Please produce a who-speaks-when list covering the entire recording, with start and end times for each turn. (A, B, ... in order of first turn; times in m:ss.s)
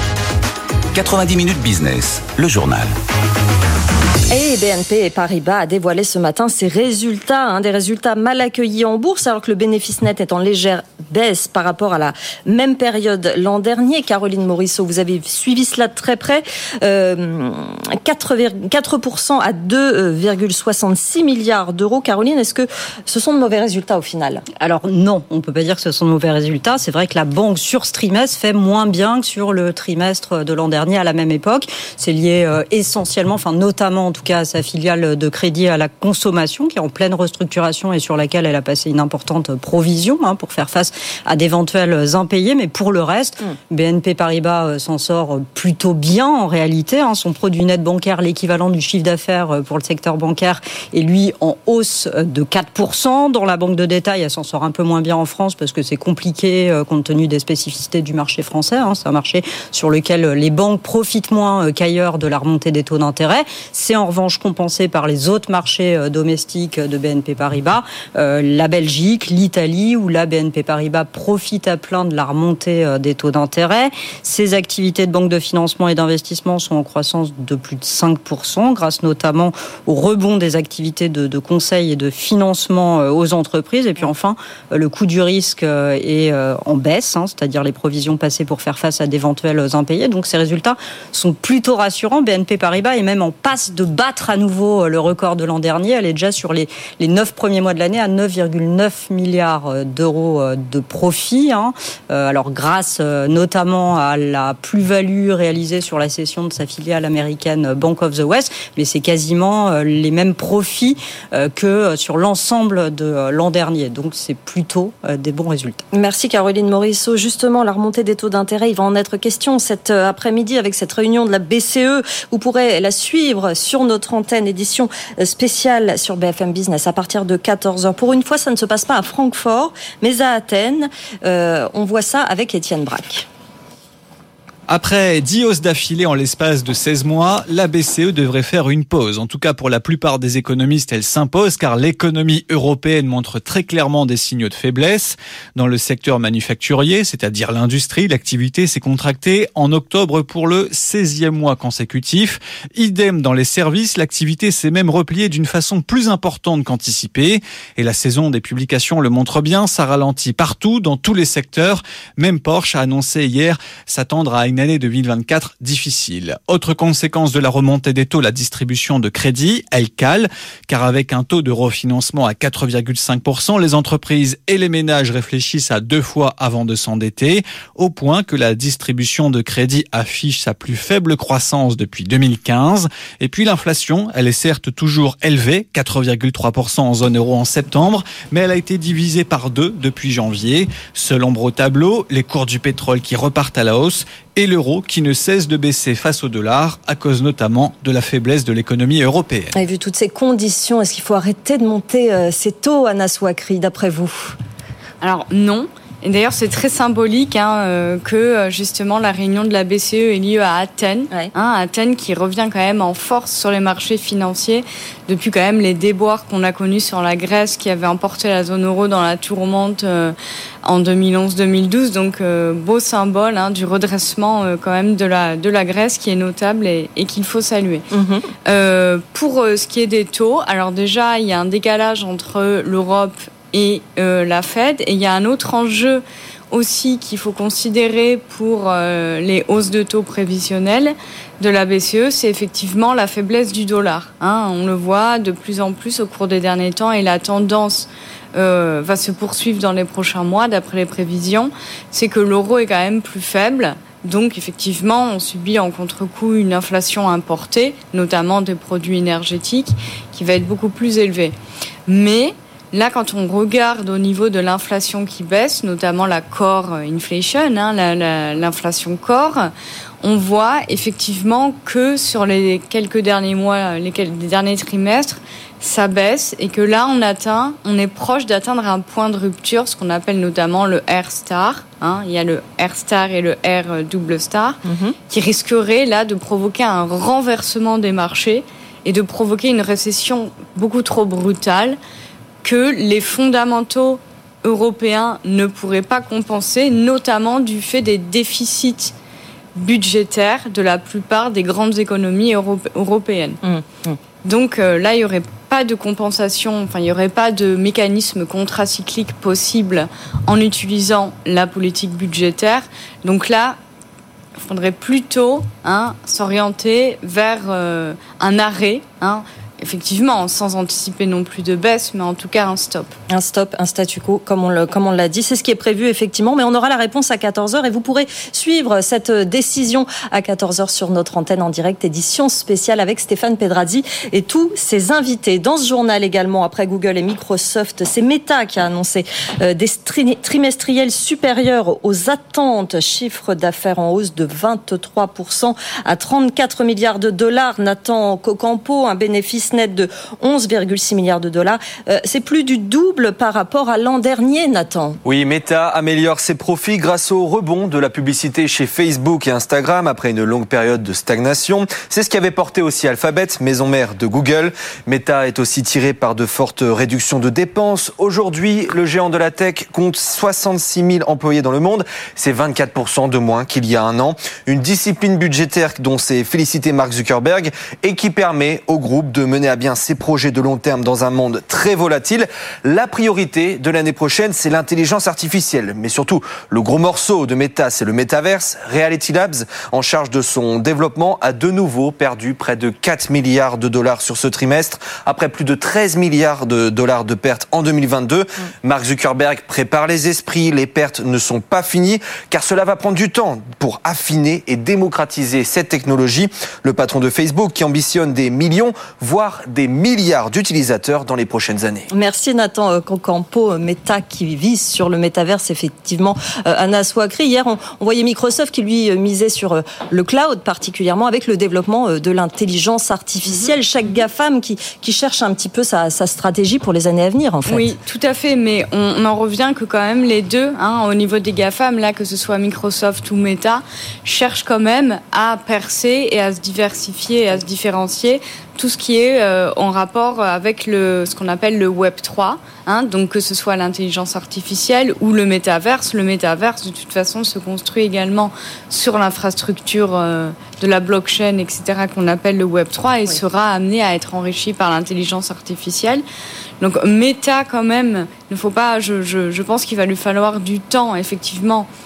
0:00.9-0:02.9 A
0:04.3-0:24.4 B
0:24.6-1:55.8 C
1:55.9-2:13.3 B
2:14.7-3:19.5 D
3:19.5-3:24.4 B
3:25.0-3:47.9 E
3:47.9-3:48.3 B
3:48.5-4:21.4 E
4:21.9-4:29.5 E
4:30.0-4:51.8 E
4:44.6-4:45.0 B
4:52.4-4:58.9 E
4:59.6-5:03.4 E
5:03.4-5:04.0 B
5:04.2-5:13.6 E
5:14.4-5:23.0 E
5:23.1-5:55.0 B
5:55.0-6:51.9 F
6:51.9-7:07.7 B
7:07.5-7:36.0 E
7:36.6-7:41.7 E